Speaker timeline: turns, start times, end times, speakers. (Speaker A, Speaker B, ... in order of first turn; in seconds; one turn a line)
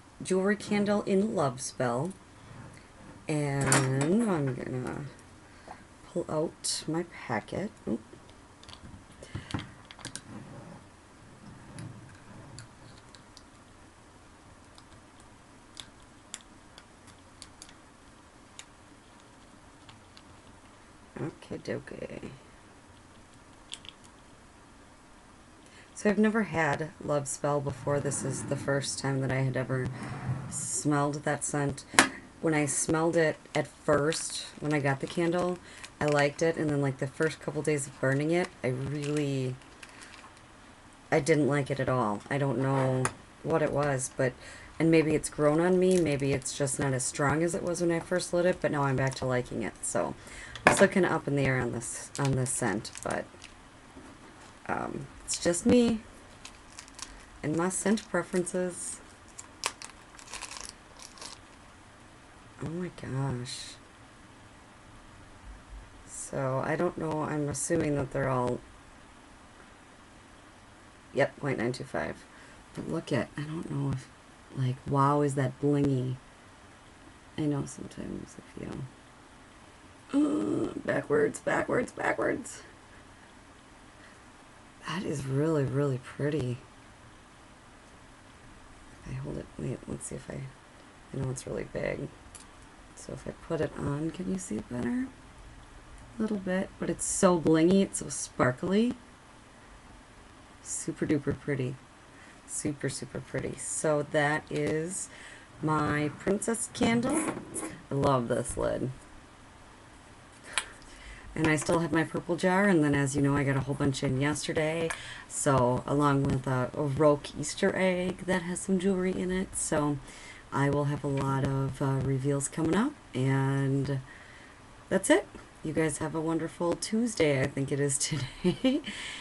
Speaker A: 0.2-2.2
Speaker A: 3.3-5.1
Speaker A: 6.0-8.0
Speaker A: 21.2-22.4
Speaker A: 25.9-29.9
Speaker A: 30.5-31.9
Speaker A: 32.4-39.6
Speaker A: 41.1-53.3
Speaker A: 54.7-56.0
Speaker A: 57.4-59.0
Speaker A: 62.6-63.8
Speaker A: 66.1-68.6
Speaker A: 71.1-76.2
Speaker A: 77.4-78.9
Speaker A: 80.1-82.7
Speaker A: 84.8-86.6
Speaker A: 89.0-90.5
Speaker A: 91.1-92.1
Speaker A: 93.0-95.1
Speaker A: 96.2-99.0
Speaker A: 100.6-101.8
Speaker A: 102.5-105.1
Speaker A: 105.6-107.4
Speaker A: 107.9-108.9
Speaker A: 111.3-120.0
Speaker A: 120.5-124.0
Speaker A: 124.9-128.9